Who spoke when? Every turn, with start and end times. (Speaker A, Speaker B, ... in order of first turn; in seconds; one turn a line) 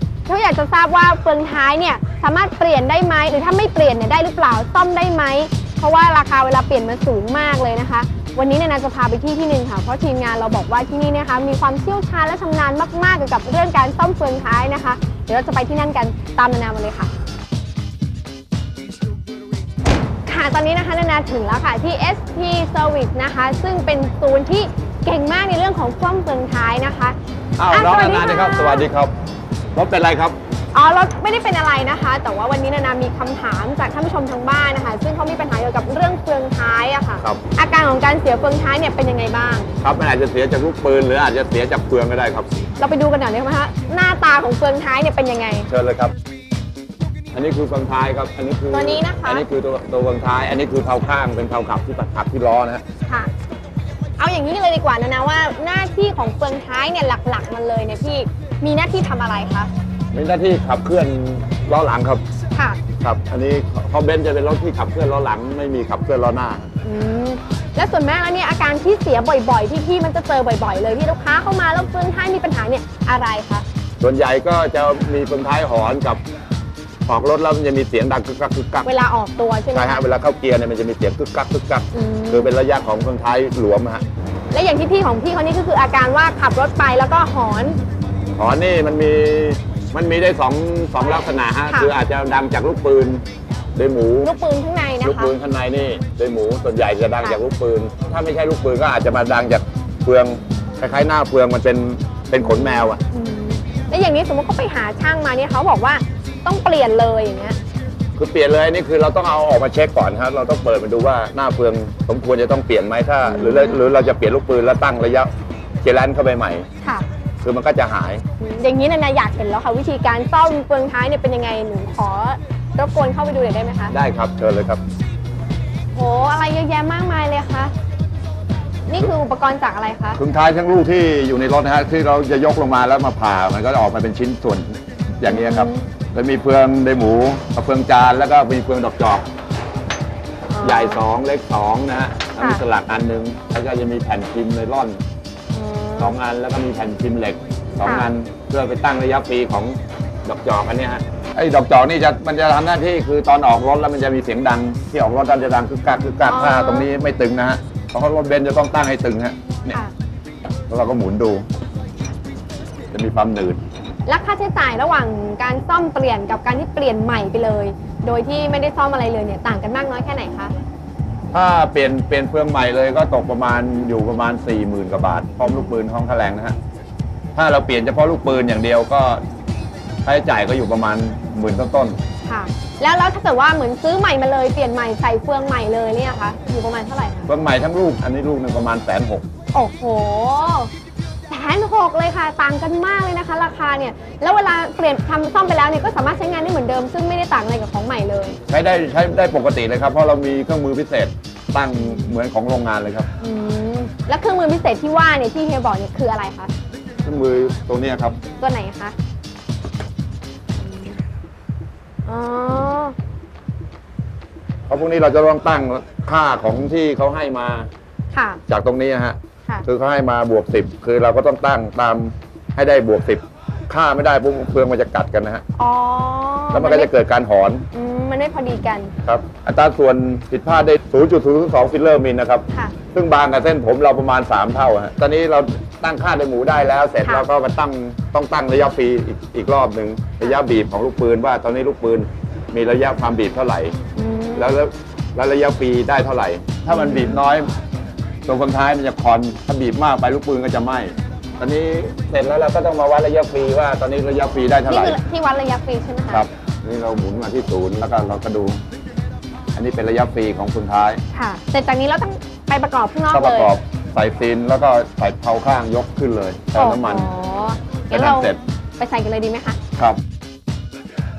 Speaker A: 0.3-17.1
Speaker A: 20.3-27.2
Speaker B: 27.6-29.1
Speaker A: 27.7-28.9
Speaker B: 29.8-30.4
Speaker A: 30.7-39.7
Speaker B: 39.8-42.5
Speaker A: 42.8-45.7
Speaker B: 45.7-46.1
Speaker B: 47.3-52.8
Speaker A: 48.7-49.5
Speaker A: 54.2-59.7
Speaker B: 60.1-62.2
Speaker A: 62.5-62.8
Speaker B: 63.0-66.7
Speaker A: 66.8-73.7
Speaker B: 74.0-76.2
Speaker B: 77.1-78.9
Speaker A: 78.8-80.0
Speaker B: 79.7-84.0
Speaker A: 81.9-82.5
Speaker A: 84.5-87.8
Speaker B: 88.3-93.2
Speaker A: 91.0-91.9
Speaker B: 93.8-94.3
Speaker A: 94.2-95.3
Speaker B: 95.0-103.0
Speaker A: 102.4-107.6
Speaker B: 108.2-115.3
Speaker A: 113.2-113.8
Speaker B: 115.8-116.7
Speaker B: 117.4-118.2
Speaker A: 118.4-123.9
Speaker B: 123.9-124.8
Speaker A: 125.9-127.7
Speaker A: 128.9-130.2
Speaker B: 130.2-139.3
Speaker A: 135.2-135.9
Speaker A: 140.5-141.0
Speaker B: 140.6-145.0
Speaker A: 145.5-146.2
Speaker B: 146.0-159.8
Speaker A: 147.8-148.1
Speaker A: 156.3-156.9
Speaker B: 160.7-161.5
Speaker B: 162.9-163.6
Speaker A: 164.1-170.5
Speaker B: 171.3-176.6
Speaker A: 175.4-175.7
Speaker B: 177.3-179.2
Speaker B: 180.1-182.0
Speaker A: 182.2-187.3
Speaker B: 187.3-189.2
Speaker A: 189.5-190.7
Speaker A: 191.3-198.4
Speaker B: 198.5-203.1
Speaker A: 201.8-202.1
Speaker A: 203.2-206.5
Speaker B: 207.1-208.2
Speaker A: 208.4-208.9
Speaker A: 212.1-212.9
Speaker B: 214.7-217.7
Speaker A: 218.1-218.4
Speaker B: 218.5-225.4
Speaker A: 225.6-226.9
Speaker B: 226.5-227.7
Speaker A: 227.7-228.9
Speaker B: 229.0-243.8
Speaker A: 243.9-244.6
Speaker B: 244.3-247.5
Speaker A: 246.7-247.2
Speaker B: 248.3-255.0
Speaker A: 254.7-256.2
Speaker B: 256.1-258.6
Speaker B: 259.6-261.0
Speaker A: 261.1-263.5
Speaker B: 263.1-267.1
Speaker A: 266.6-269.6
Speaker B: 267.9-268.4